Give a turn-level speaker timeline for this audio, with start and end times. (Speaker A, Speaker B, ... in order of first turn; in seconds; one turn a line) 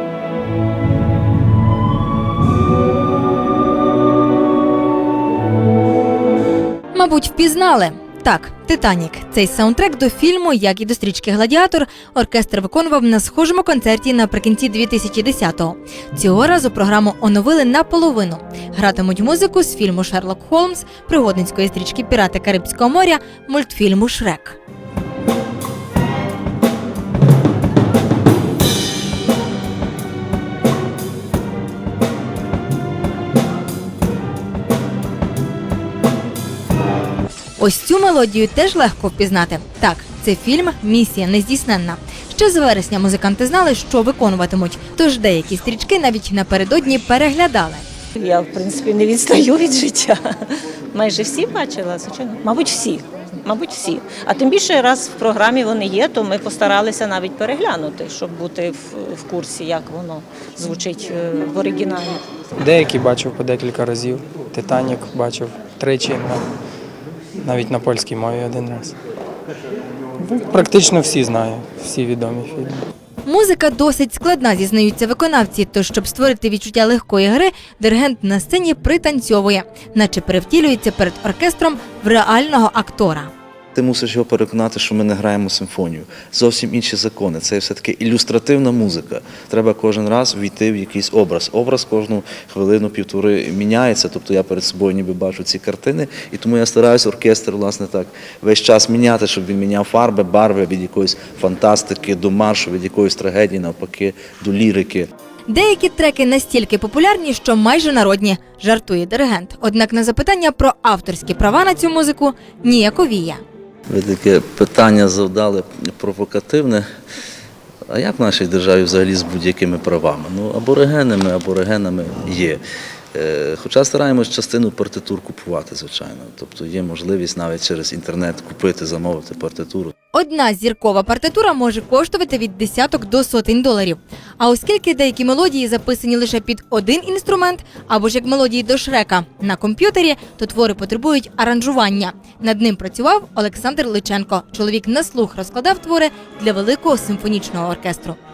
Speaker A: 6.9-24.6
Speaker A: 37.6-47.8
Speaker B: 48.1-62.2
Speaker C: 62.6-66.5
Speaker C: 67.4-69.0
Speaker C: 70.2-72.8
Speaker A: 73.2-83.3
Speaker D: 83.7-105.1
Speaker A: 105.5-113.4
Speaker D: 113.9-116.8
Speaker D: 117.9-122.6
Speaker D: 123.1-129.9
Speaker A: 130.1-148.2